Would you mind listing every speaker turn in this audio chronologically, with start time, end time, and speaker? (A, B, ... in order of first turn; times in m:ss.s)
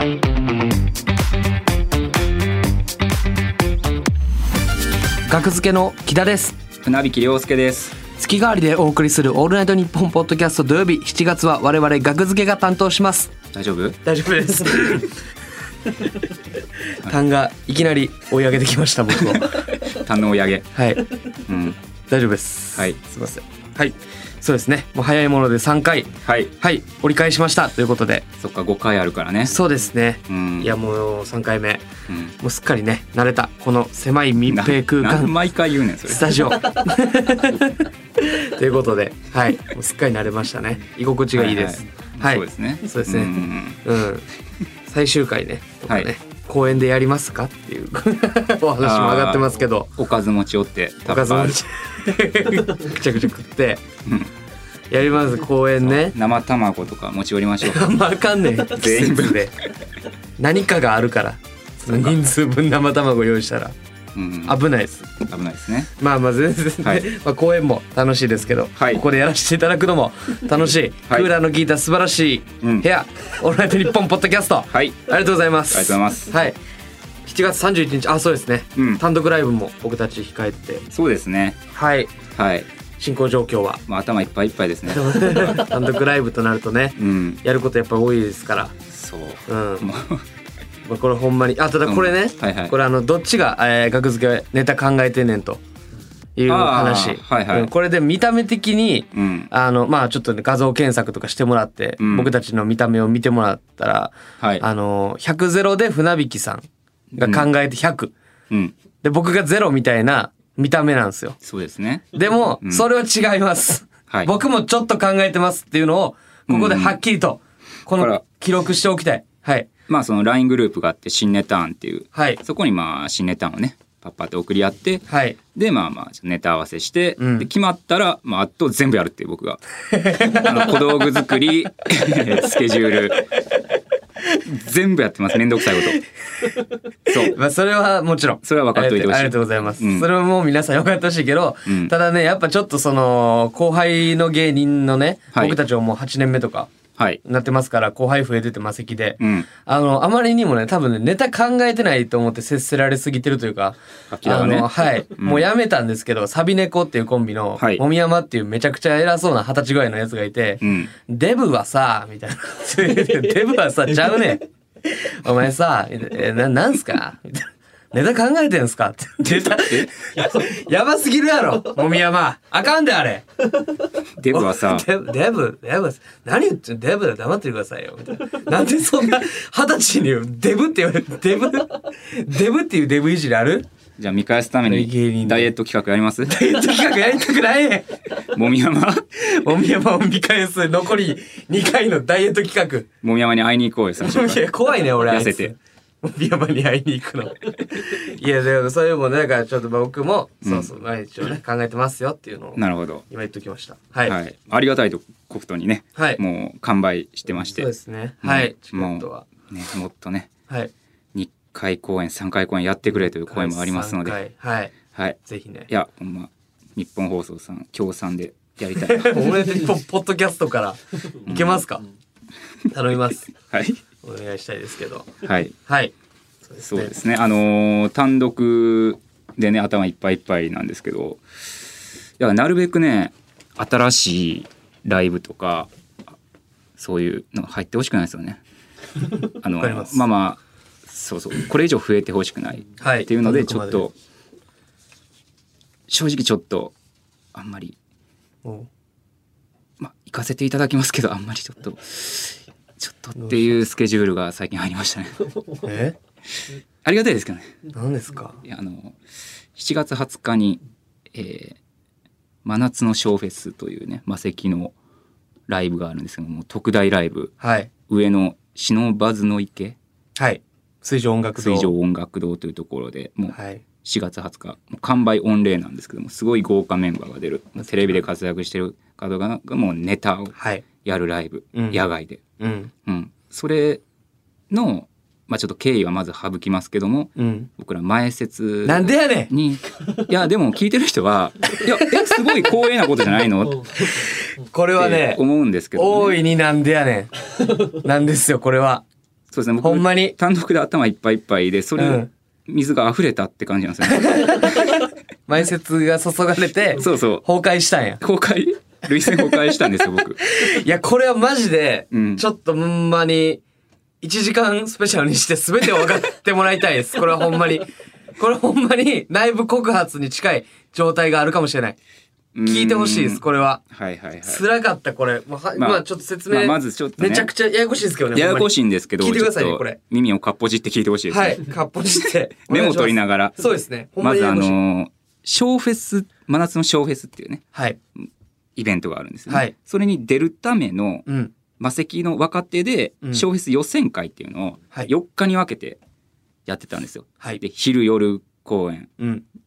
0:05.3-0:06.5 A
0:06.8-0:08.0 B
0:08.2-0:13.3 A
0:13.5-0:14.0 B
0:14.0-0:15.1 A
0:17.0-0:19.7 A
0:19.2-0:20.7 B
0:20.7-0:21.0 A
0:21.4-0:21.8 B
0:22.1-0:28.2 A
0:26.2-0:26.5 B
0:28.4-0:29.5 B
0:29.5-0:31.8 A
0:30.3-0:30.7 B
0:32.1-0:32.4 B
0:32.4-0:35.3 A
0:34.5-0:36.8 B
0:36.1-0:44.3 A
0:37.3-0:37.7 B
0:41.3-0:43.8 B
0:44.9-0:49.9 A
0:48.8-0:51.6 B
0:51.1-0:53.8 A
0:54.0-0:54.3 B
0:54.9-0:56.1 A
0:55.8-0:57.9 B
0:57.6-0:59.5 A
0:58.6-0:59.5 B
1:00.4-1:03.7 A
1:01.9-1:02.2 B
1:04.1-1:04.6 B
1:04.4-1:05.1 A
1:05.1-1:05.9 B
1:06.0-1:16.6 A
1:06.8-1:07.1 B
1:08.8-1:09.0 B
1:14.7-1:15.0 B
1:15.7-1:16.3 B
1:17.2-1:20.8 A
1:18.8-1:19.0 B
1:20.9-1:21.6 B
1:21.7-1:22.1 A
1:22.3-1:22.7 B
1:23.0-1:23.8 A
1:23.9-1:25.7 B
1:24.9-1:28.8 A
1:27.0-1:27.4 B
1:28.9-1:30.2 B
1:29.5-1:29.9 A
1:30.8-1:35.6 A
1:31.8-1:32.7 B
1:36.4-1:48.1 A
1:36.5-1:37.7 B
1:39.1-1:39.5 B
1:42.0-1:42.3 B
1:44.4-1:44.6 B
1:47.1-1:47.5 B
1:49.0-1:51.4 A
1:51.4-1:52.8 B
1:52.1-1:59.7 A
1:56.5-1:57.0 B
1:58.0-1:58.2 B
1:59.9-2:05.0 B
2:02.1-2:02.4 A
2:05.1-2:05.4 A
2:05.5-2:09.6 B
2:07.2-2:07.5 A
2:09.9-2:10.8 A
2:10.1-2:13.3 B
2:14.4-2:16.0 B
2:17.1-2:17.4 B
2:17.1-2:26.7 A
2:18.4-2:20.1 B
2:21.6-2:21.9 B
2:27.2-2:53.2 A
2:29.2-2:29.5 B
2:34.1-2:35.5 B
2:37.6-2:37.8 B
2:40.6-2:40.9 B
2:49.4-2:49.9 B
2:54.2-2:54.9 B
2:54.3-3:03.7 A
3:04.0-3:06.4 B
3:04.6-3:05.5 A
3:06.2-3:07.9 A
3:08.3-3:09.0 B
3:09.2-3:12.9 A
3:13.0-3:15.5 B
3:14.0-3:24.2 A
3:20.4-3:20.7 B
3:22.6-3:23.0 B
3:24.0-3:27.6 B
3:27.5-3:29.3 A
3:28.2-3:30.3 B
3:31.1-3:34.2 B
3:33.2-3:34.7 A
3:35.2-3:35.7 A
3:35.7-3:39.5 B
3:38.7-3:41.8 A
3:41.2-3:41.6 B
3:42.7-3:43.3 A
3:43.4-3:43.8 B
3:44.0-3:45.9 A
3:45.2-3:45.5 B
3:46.4-3:46.9 A
3:46.6-3:51.2 B
3:52.2-3:56.2 B
3:56.8-3:58.4 B
3:59.2-4:03.9 B
3:59.6-4:00.0 A
4:02.8-4:03.9 A
4:05.9-4:06.7 B
4:07.3-4:07.8 B
4:09.8-4:15.3 B
4:13.2-4:13.6 A
4:15.6-4:16.0 A
4:16.8-4:17.5 B
4:17.7-4:18.4 A
4:18.4-4:19.0 B
4:19.5-4:20.6 B
4:21.1-4:21.6 B
4:22.4-4:24.7 B
4:25.5-4:27.3 B
4:27.4-4:27.7 A
4:27.9-4:29.8 B
4:30.2-4:31.7 A
4:31.4-4:42.2 B
4:33.3-4:33.6 A
4:40.4-4:40.6 A
4:41.5-4:41.8 A
4:42.4-4:42.7 A
4:42.8-4:43.8 B
4:44.5-4:53.9 B
4:47.2-4:47.5 A
4:48.6-4:49.3 A
4:54.4-4:55.2 A
4:54.8-4:56.2 B
4:55.7-4:58.8 A
4:59.3-5:04.8 B
4:59.6-5:00.2 A
5:01.8-5:02.1 A
5:03.9-5:08.0 A
5:06.8-5:07.2 B
5:08.0-5:10.2 B
5:10.2-5:13.4 A
5:11.9-5:12.2 B
5:14.0-5:21.8 A
5:22.3-5:24.4 B
5:22.4-5:23.6 A
5:24.2-5:29.8 A
5:25.6-5:27.3 B
5:28.1-5:31.4 B
5:31.1-5:34.6 A
5:32.5-5:37.4 B
5:38.6-5:41.0 B
5:39.3-5:39.5 A
5:41.0-5:41.3 A
5:41.6-5:45.8 B
5:46.4-5:48.9 B
5:49.0-5:49.2 A